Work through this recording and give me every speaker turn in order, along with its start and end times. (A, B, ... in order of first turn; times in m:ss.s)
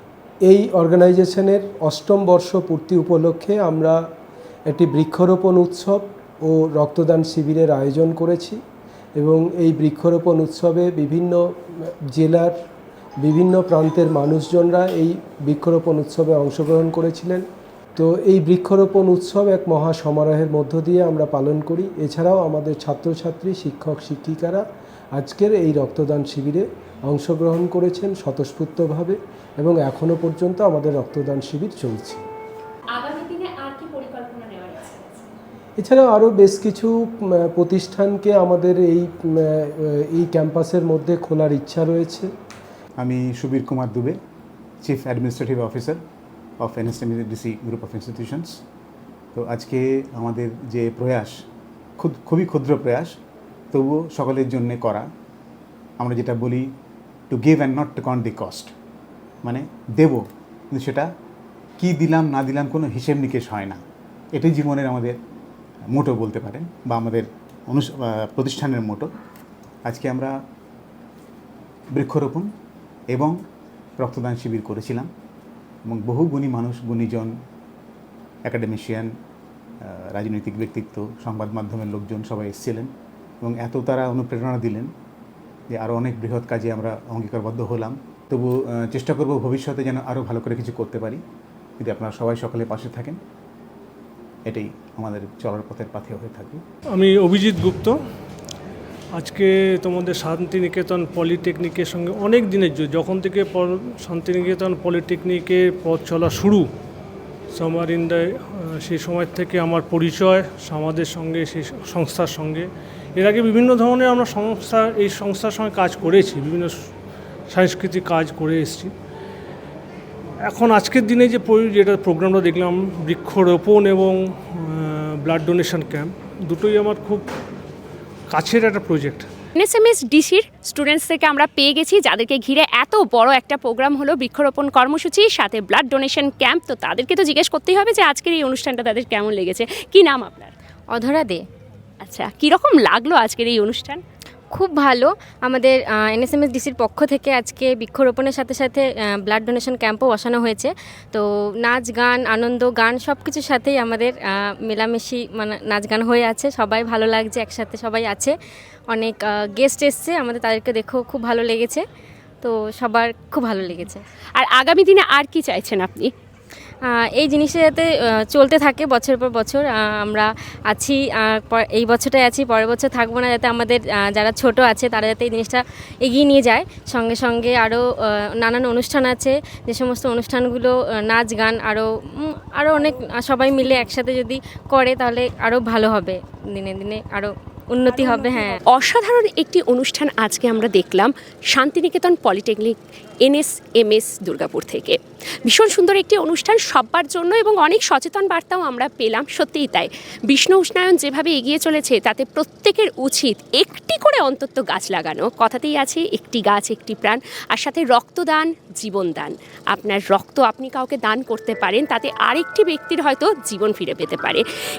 0:00.4-0:04.0 A
0:04.7-0:08.6 A
0:09.2-0:11.4 A
0:12.1-0:12.5 A
0:13.2-0:17.4 A
0:18.0-0:24.6 A
0:25.1-0:32.2 A
0:32.9-0:35.2 B
0:35.8-0:42.3 A
0:43.0-0:44.2 C
0:44.8-0:46.0 C
0:46.6-0:48.6 C
0:49.3-0:51.4 C
0:52.0-0:53.2 C
0:53.7-0:55.1 C
0:56.0-0:56.7 C
0:57.3-0:58.7 C
0:59.4-1:01.1 C
1:01.8-1:03.8 C
1:04.3-1:05.2 C
1:05.9-1:09.1 C
1:09.8-1:10.3 C
1:11.9-1:12.5 C
1:13.1-1:13.4 C
1:14.0-1:15.1 C
1:15.9-1:17.3 C
1:18.4-1:19.1 C
1:19.8-1:22.9 C
1:23.4-1:24.9 C
1:25.7-1:31.2 C
1:31.8-1:33.2 C
1:34.4-1:36.6 C
1:36.9-1:38.0 D
1:39.2-1:46.7 D
1:47.5-1:56.8 D
1:57.5-1:58.9 D
2:00.5-2:07.2 D
2:08.3-2:09.3 D
2:09.6-2:20.5 B
2:20.9-2:21.4 E
2:22.0-2:24.0 B
2:24.5-2:38.3 E
2:38.9-2:41.8 E
2:42.4-2:44.0 E
2:44.4-2:46.1 B
2:46.9-2:57.8 E
2:58.4-3:08.6 E
3:08.7-3:34.4 B